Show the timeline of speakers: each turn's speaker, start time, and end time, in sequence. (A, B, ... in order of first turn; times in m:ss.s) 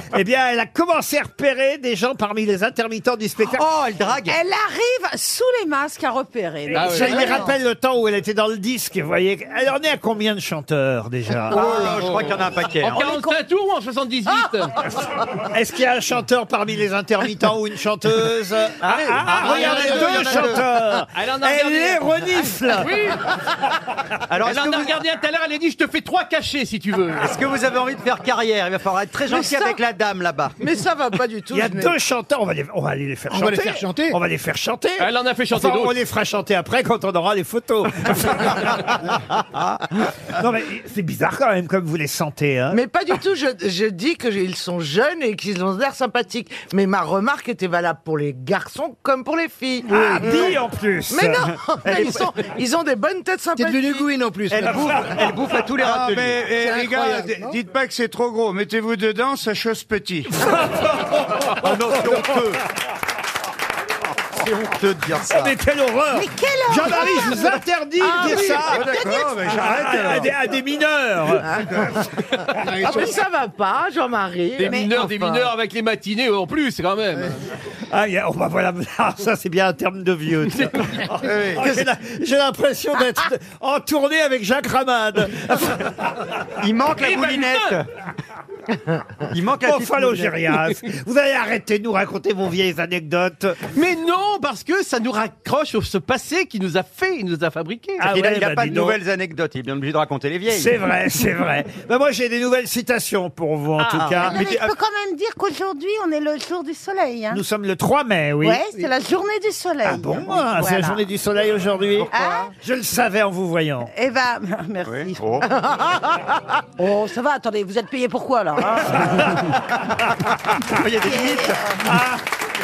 0:00.1-0:03.6 A
0:03.5-0:04.4 B
0:04.3-0:07.5 C
0:06.7-0:11.8 A
0:06.8-0:07.2 D
0:11.5-0:13.0 B
0:11.9-0:14.8 E
0:13.0-0:13.4 C
0:15.5-0:22.9 A
0:18.8-0:20.6 B
0:19.4-0:20.4 E
0:21.1-0:22.0 E
0:22.8-0:23.2 E
0:24.3-0:25.0 B
0:24.3-0:27.4 E
0:27.2-0:30.6 B
0:29.3-0:29.8 D
0:30.6-0:31.9 D
0:31.5-0:38.8 A
0:33.3-0:34.2 F
0:35.0-0:36.0 E
0:40.4-0:42.8 A
0:42.7-0:49.9 D
0:49.9-0:52.1 A
0:50.0-0:50.5 F
0:51.1-0:54.0 D
0:53.6-0:55.0 F
0:54.5-0:56.5 B
0:55.8-1:00.4 G
0:56.5-0:57.6 F
1:00.4-1:02.4 A
1:01.6-1:02.5 B
1:04.4-1:05.5 B
1:05.2-1:11.5 A
1:06.1-1:09.6 C
1:08.9-1:10.3 G
1:12.7-1:15.5 C
1:13.0-1:14.2 D
1:14.6-1:17.3 E
1:17.9-1:25.9 A
1:21.2-1:21.7 B
1:26.6-1:27.9 B
1:26.9-1:27.8 E
1:29.3-1:30.4 B
1:29.6-1:33.6 A
1:33.7-1:38.1 E
1:38.0-1:39.0 A
1:38.0-1:40.8 B
1:40.5-1:44.5 A
1:43.8-1:47.4 C
1:44.0-1:44.7 B
1:47.3-1:48.6 A
1:48.4-1:51.0 C
1:49.8-1:53.9 A
1:52.0-1:52.5 B
1:52.1-1:52.5 C
1:53.9-1:56.2 C
1:54.9-1:55.4 B
1:56.8-1:59.4 C
2:00.7-2:01.6 B
2:01.0-2:01.8 C
2:01.8-2:02.2 A